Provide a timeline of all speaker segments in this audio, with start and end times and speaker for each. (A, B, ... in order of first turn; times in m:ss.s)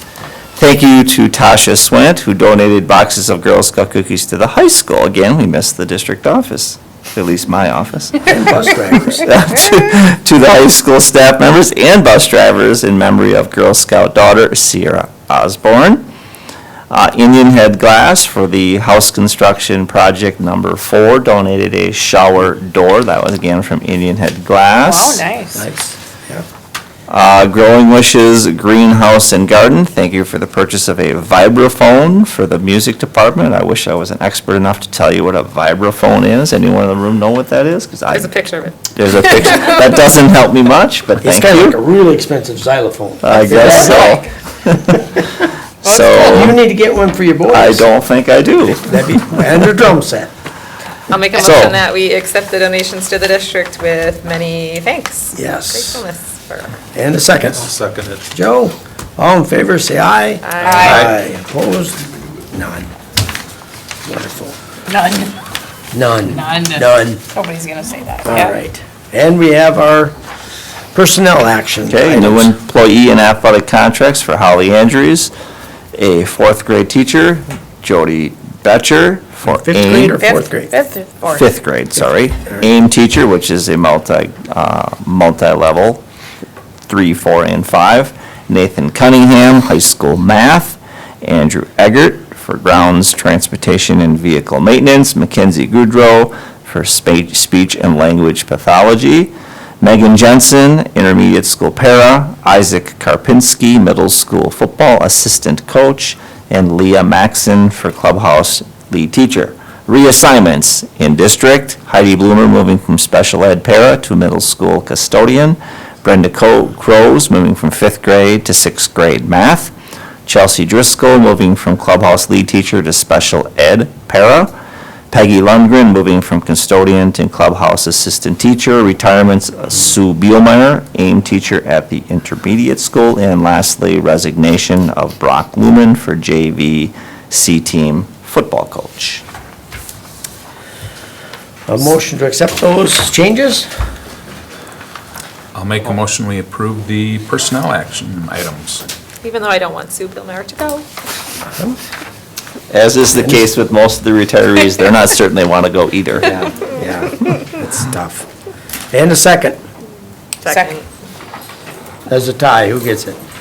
0:00.6-0:16.1 A
0:08.3-0:09.2 B
0:16.9-0:25.2 A
0:24.8-0:25.6 C
0:25.5-0:26.4 B
0:27.1-0:38.3 A
0:38.1-0:39.8 D
0:38.9-0:41.8 A
0:41.2-0:44.1 B
0:43.2-0:45.0 A
0:43.4-0:44.3 C
0:45.8-0:46.5 C
0:45.8-0:46.6 A
0:46.2-0:47.9 B
0:47.5-0:49.0 A
0:48.8-0:50.3 B
0:51.1-0:56.7 D
0:51.4-0:51.8 A
0:55.3-0:56.0 B
0:56.9-0:57.6 B
0:57.4-0:58.3 E
0:58.3-1:02.9 B
1:00.4-1:01.1 D
1:00.6-1:01.1 C
1:04.0-1:04.6 B
1:04.9-1:05.3 C
1:05.9-1:07.2 B
1:06.3-1:08.6 C
1:08.2-1:10.1 B
1:10.9-1:12.5 B
1:11.9-1:15.3 A
1:15.9-1:20.2 A
1:19.5-1:20.7 B
1:19.9-1:21.5 C
1:21.2-1:26.0 A
1:26.9-1:59.7 A
2:00.2-2:04.5 A
2:05.1-2:19.2 A
2:21.7-2:23.7 B
2:25.5-2:28.8 E
2:29.2-2:30.8 D
2:32.7-2:36.5 A
2:33.2-2:33.4 B
2:36.3-2:38.3 B
2:38.9-2:39.6 B
2:40.4-2:40.8 D
2:40.5-2:40.8 C
2:42.1-2:43.2 B